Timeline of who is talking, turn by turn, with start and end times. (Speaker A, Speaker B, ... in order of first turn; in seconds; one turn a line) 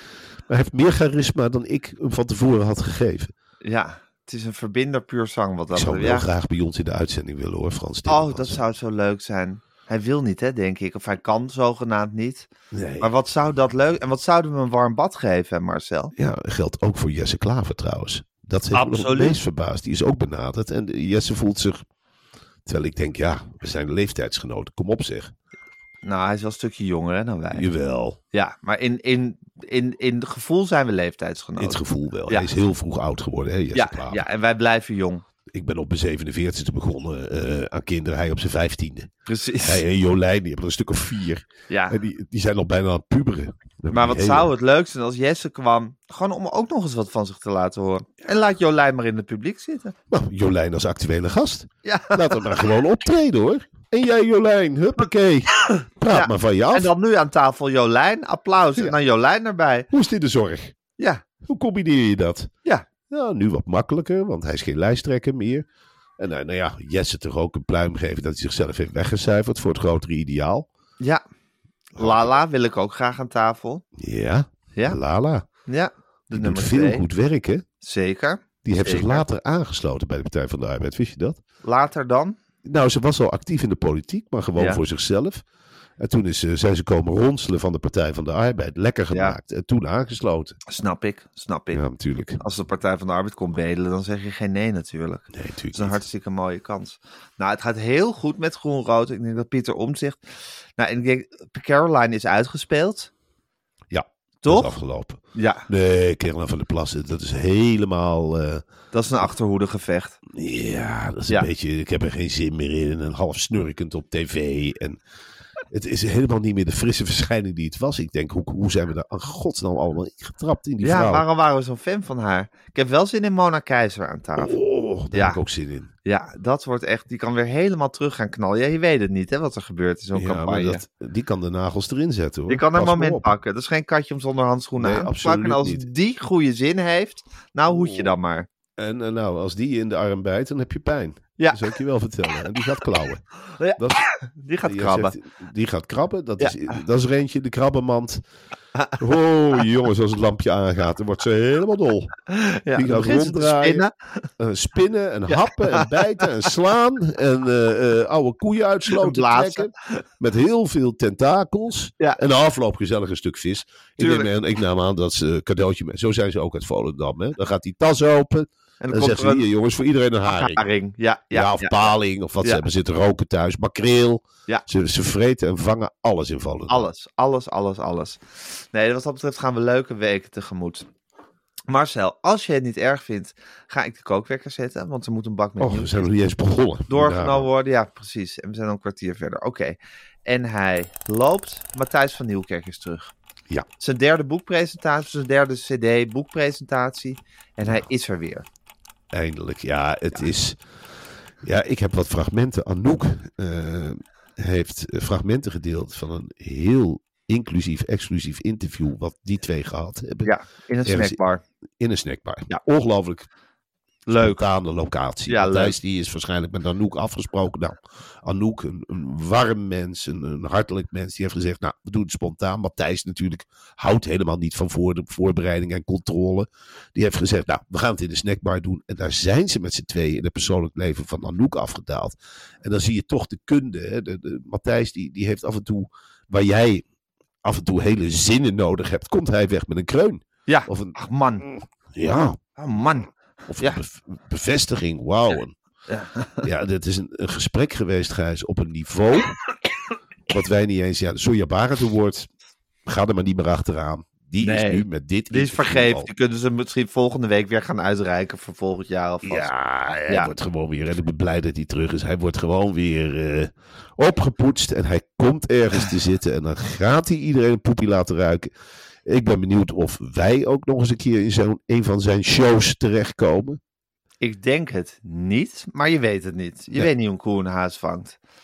Speaker A: 0.5-3.3
Speaker B: 3.6-6.3
Speaker A: 5.7-8.6
Speaker B: 8.1-12.5
Speaker A: 12.7-13.1
Speaker B: 13.0-16.1
Speaker A: 16.1-21.8
Speaker B: 18.7-19.4
Speaker A: 22.7-25.3
Speaker B: 26.0-27.6
Speaker A: 27.5-28.2
Speaker B: 28.3-32.5
Speaker A: 31.6-34.2
Speaker B: 33.8-35.2
Speaker A: 35.5-39.1
Speaker B: 39.3-39.8
Speaker A: 39.6-44.5
Speaker B: 41.7-42.0
Speaker B: 43.9-50.0
Speaker A: 50.1-56.9
Speaker B: 51.9-52.5
Speaker B: 56.1-59.9
Speaker A: 59.9-60.8
Speaker B: 61.0-61.2
Speaker A: 61.4-62.5
Speaker A: 63.1-65.7
Speaker A: 66.2-70.7
Speaker B: 71.9-73.8
Speaker A: 72.0-72.3
Speaker A: 74.0-75.5
Speaker B: 75.7-77.0
Speaker A: 76.3-77.7
Speaker B: 77.8-79.2
Speaker A: 78.6-81.4
Speaker B: 81.6-82.4
Speaker A: 82.7-85.5
Speaker A: 86.0-90.6
Speaker B: 89.1-89.4
Speaker B: 90.7-91.8
Speaker A: 91.7-92.4
Speaker B: 92.4-100.2
Speaker A: 95.3-96.0
Speaker B: 100.8-103.1
Speaker A: 103.9-108.6
Speaker B: 104.4-104.7
Speaker B: 105.3-105.7
Speaker B: 108.9-110.2
Speaker A: 110.3-115.0
Speaker A: 115.7-121.3
Speaker B: 120.8-124.5
Speaker A: 124.4-125.9
Speaker B: 125.1-125.4
Speaker B: 126.0-130.8
Speaker A: 130.1-133.3
Speaker B: 132.5-138.5
Speaker A: 134.8-135.9
Speaker A: 137.7-138.1
Speaker A: 138.8-143.2
Speaker B: 141.4-141.7
Speaker B: 143.6-145.2
Speaker A: 143.8-144.1
Speaker A: 144.6-148.2
Speaker A: 149.0-152.2
Speaker B: 152.3-153.9
Speaker A: 152.7-153.9
Speaker A: 154.4-170.6
Speaker B: 155.3-155.9
Speaker B: 158.9-159.7
Speaker B: 164.0-164.3
Speaker B: 168.8-169.4
Speaker B: 170.3-172.6
Speaker A: 171.3-176.9
Speaker B: 176.7-180.9
Speaker B: 181.7-186.1
Speaker A: 185.6-187.5
Speaker B: 186.9-193.1
Speaker B: 193.8-198.5
Speaker A: 199.1-200.6
Speaker A: 201.4-210.3
Speaker B: 210.2-211.4
Speaker A: 210.8-211.2
Speaker A: 211.8-213.3
Speaker B: 214.1-214.4
Speaker A: 214.1-236.8
Speaker B: 215.3-215.8
Speaker A: 237.4-242.4
Speaker B: 240.5-241.4
Speaker B: 242.6-243.8
Speaker A: 243.5-245.6
Speaker B: 245.9-246.5
Speaker A: 246.4-249.4
Speaker A: 250.3-252.3
Speaker A: 252.9-256.1
Speaker B: 254.4-259.5
Speaker A: 259.2-268.5
Speaker A: 269.1-273.6
Speaker B: 274.2-278.2